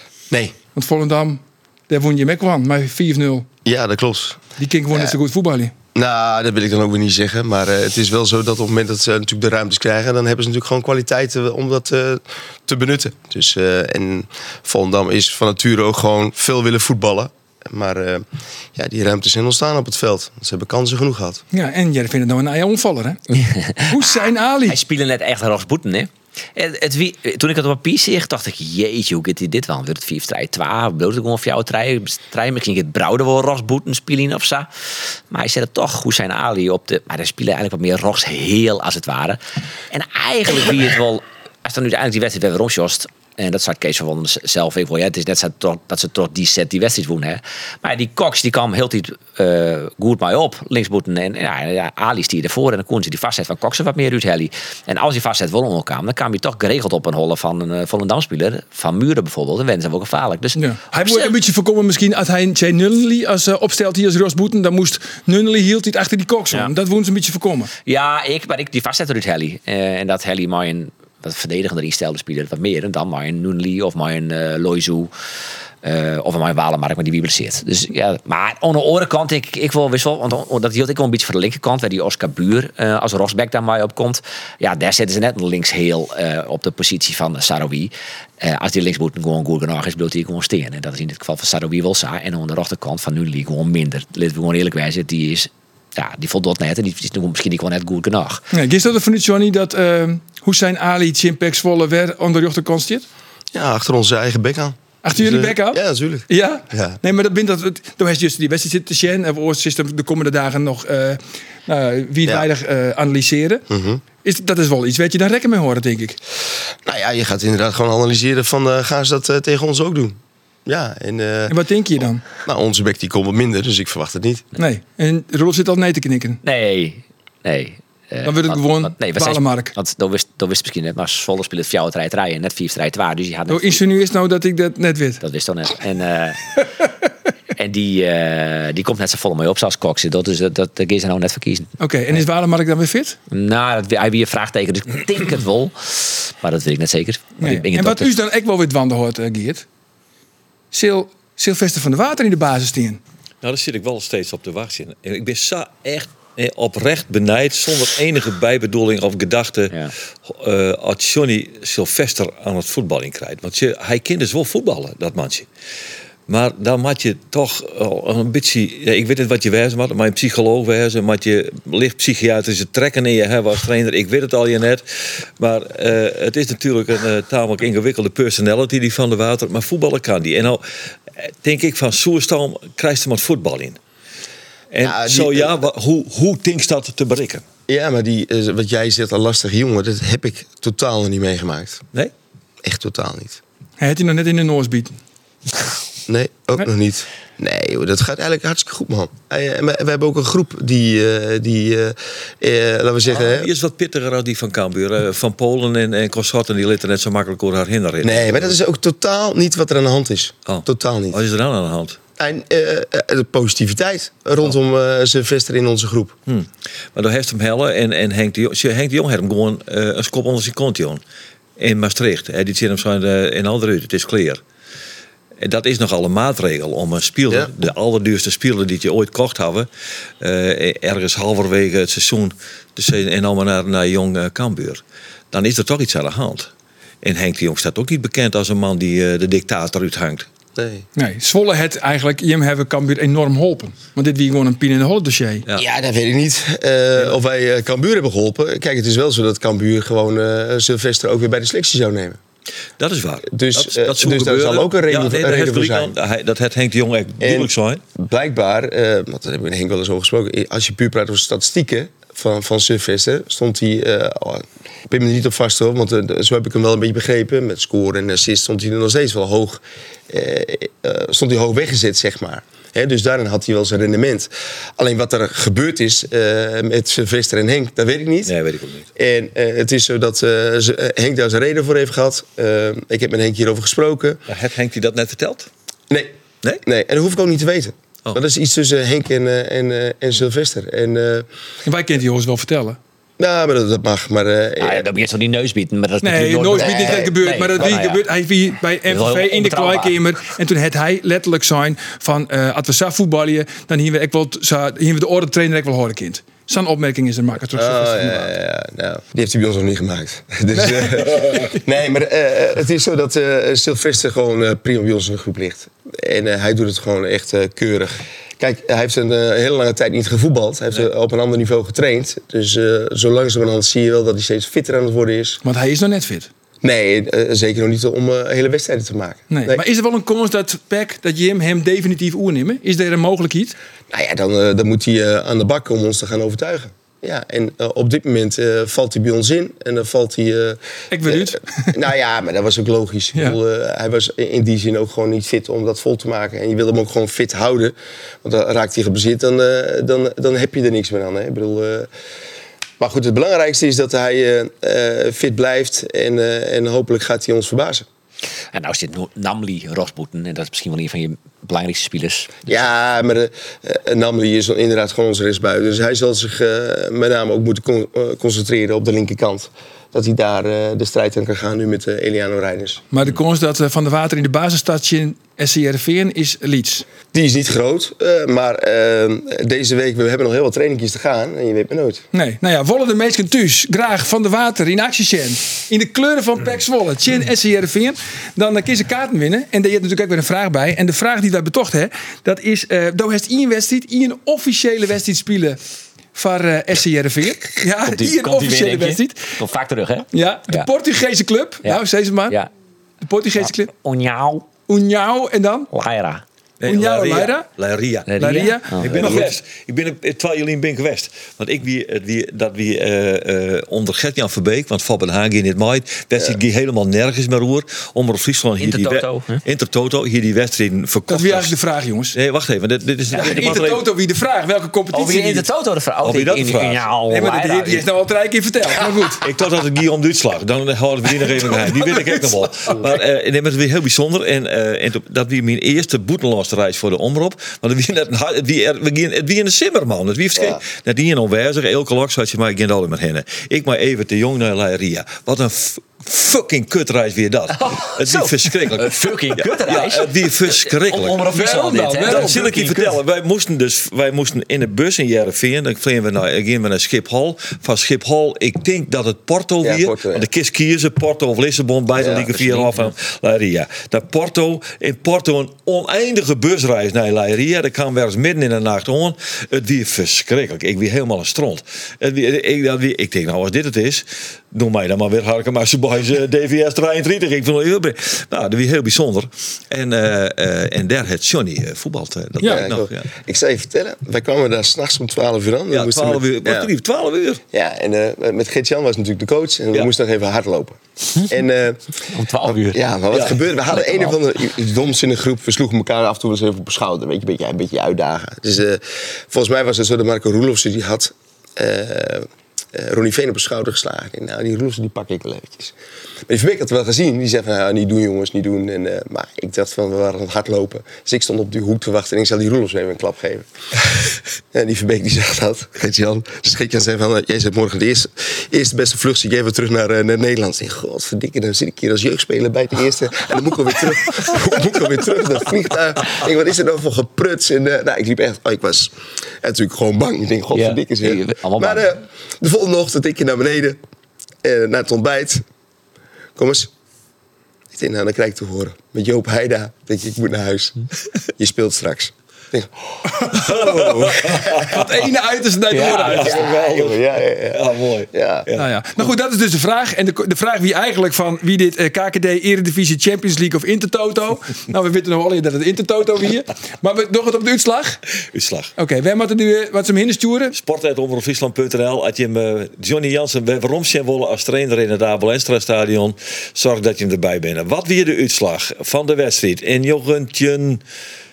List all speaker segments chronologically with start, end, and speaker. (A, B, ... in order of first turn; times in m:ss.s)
0:00.3-0:00.6 A
0:00.7-0:03.5 B
0:03.6-0:05.2 A
0:04.6-0:05.7 B
0:05.9-0:21.4 A
0:21.5-0:23.2 B
0:23.3-0:34.7 C
0:23.9-0:24.8 B
0:35.3-0:39.4 C
0:39.9-1:01.3 C
1:00.6-1:07.7 B
1:07.8-1:15.1 C
1:15.8-1:38.4 C
1:38.5-1:43.0 B
1:43.5-1:47.0 A
1:45.0-1:53.6 B
1:53.7-1:54.0 A
1:54.2-1:56.2 B
1:56.8-2:01.6 A
2:01.5-2:02.2 B
2:02.4-2:04.5 A
2:04.6-2:06.4 B
2:06.4-2:13.8 C
2:08.2-2:09.7 B
2:13.5-2:15.2 B
2:15.2-2:16.6 C
2:17.6-2:21.7 C
2:21.8-2:23.2 B
2:23.3-2:28.1 C
2:27.4-2:29.6 B
2:30.7-2:33.0 B
2:33.4-2:45.5 D
2:46.3-2:54.8 D
2:55.4-3:00.6 D
3:01.2-3:03.8 D
3:04.7-3:07.4 D
3:04.8-3:05.6 A
3:07.7-3:11.8 A
3:12.6-3:13.4 A
3:13.8-3:15.0 B
3:16.1-3:23.5 A
3:23.1-3:28.6 D
3:28.0-3:31.2 A
3:30.5-3:32.0 D
3:32.2-3:36.1 A
3:36.3-3:41.0 D
3:41.6-3:44.4 D
3:45.4-3:49.7 D
3:50.2-3:56.5 D
3:57.0-4:00.3 D
4:00.6-4:00.8 A
4:01.0-4:05.4 B
4:05.6-4:12.2 A
4:12.8-4:17.8 D
4:13.3-4:15.9 A
4:17.2-4:38.3 A
4:38.2-4:38.9 D
4:39.0-4:44.2 A
4:44.3-4:45.5 D
4:45.9-4:51.3 A
4:51.6-4:52.8 B
4:53.2-4:54.9 A
4:54.6-4:58.0 C
4:56.0-5:08.3 B
4:56.6-4:57.1 A
4:58.9-5:00.0 C
5:07.5-5:25.4 A
5:10.6-5:11.6 B
5:25.4-5:26.3 B
5:26.6-5:29.6 A
5:29.3-5:33.6 B
5:33.9-5:51.9 A
5:40.9-5:41.7 B
5:52.8-5:57.8 A
5:58.5-6:02.5 C
6:02.5-6:12.8 A
6:12.9-6:16.9 B
6:17.1-6:22.0 A
6:22.1-6:35.6 B
6:36.1-6:39.3 B
6:37.8-6:40.7 C
6:40.1-6:42.4 B
6:41.6-6:42.5 C
6:43.0-6:43.7 B
6:43.4-6:44.5 C
6:44.7-6:45.7 B
6:45.7-6:46.2 C
6:46.6-7:01.5 D
6:46.7-6:47.5 B
6:48.1-6:49.3 C
6:48.2-6:49.4 B
6:58.6-6:59.4 C
7:01.1-7:02.2 B
7:02.1-7:03.8 D
7:03.1-7:03.6 C
7:03.1-7:05.4 B
7:04.9-7:07.8 C
7:06.0-7:06.8 D
7:07.1-7:09.2 B
7:09.2-7:31.3 D
7:11.3-7:12.3 B
7:27.5-7:32.4 C
7:31.3-7:33.0 B
7:32.0-8:03.1 D
7:39.6-7:40.3 A
7:42.0-7:42.3 A
7:42.0-7:42.9 C
8:02.4-8:02.6 B
8:02.4-8:06.7 A
8:05.7-8:07.4 D
8:07.5-8:11.8 A
8:12.1-8:12.8 C
8:12.4-8:25.8 A
8:13.1-8:13.4 D
8:13.7-8:14.1 C
8:26.3-8:53.8 A
8:50.5-8:51.8 C
8:54.4-8:55.4 A
8:56.4-8:56.7 A
8:57.7-9:00.8 A
9:01.4-9:04.8 A
9:03.1-9:04.1 B
9:03.3-9:04.9 D
9:04.6-9:06.4 B
9:05.7-9:06.3 C
9:05.7-9:08.7 D
9:06.1-9:08.5 A
9:08.6-9:18.0 B
9:18.3-9:18.7 D
9:18.8-9:20.6 B
9:20.5-9:30.8 D